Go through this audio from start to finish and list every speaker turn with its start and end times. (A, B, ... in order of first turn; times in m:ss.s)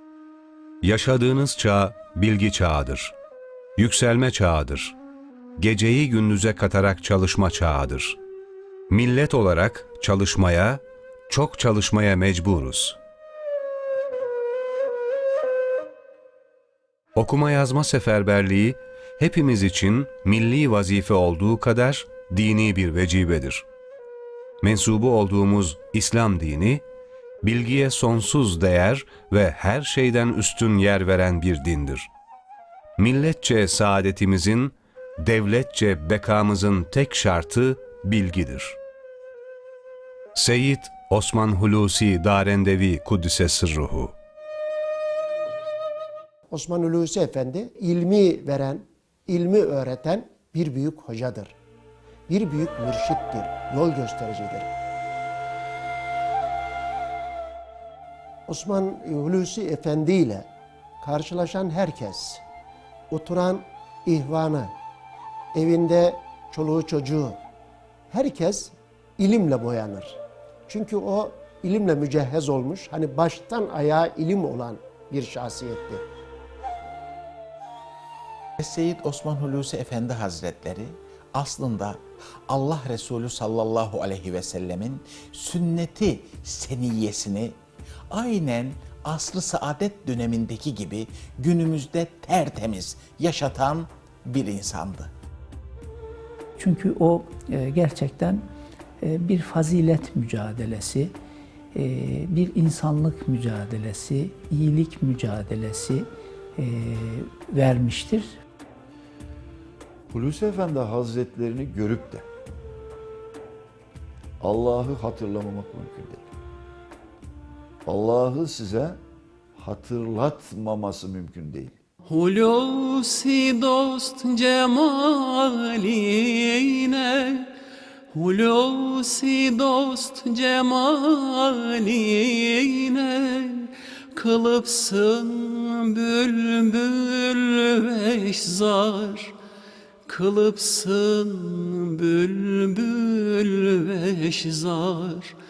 0:00.8-0:03.2 A
0:03.8-0:05.0 A
0:05.6-0:08.2 A
0:08.9-0:13.0 A
0:17.2-0:23.6 A
0:24.6-0:26.8 A
0:27.4-0:32.1 A
0:33.0-0:38.8 A
0:40.4-0:44.1 A
0:46.5-0:51.6 B
0:52.3-0:54.7 B
0:58.5-1:00.5 B
1:01.0-1:02.4 B
1:03.1-1:04.7 B
1:05.5-1:07.4 B
1:08.1-1:16.0 B
1:18.6-1:27.6 C
1:28.1-1:35.1 C
1:36.6-1:38.5 D
1:39.0-1:41.1 D
1:41.7-1:48.4 D
1:50.1-1:52.2 E
1:54.4-1:56.3 E
1:57.9-1:59.0 E
1:59.6-2:01.8 E
2:02.1-2:07.5 F
2:08.1-2:19.3 F
2:20.1-2:25.4 F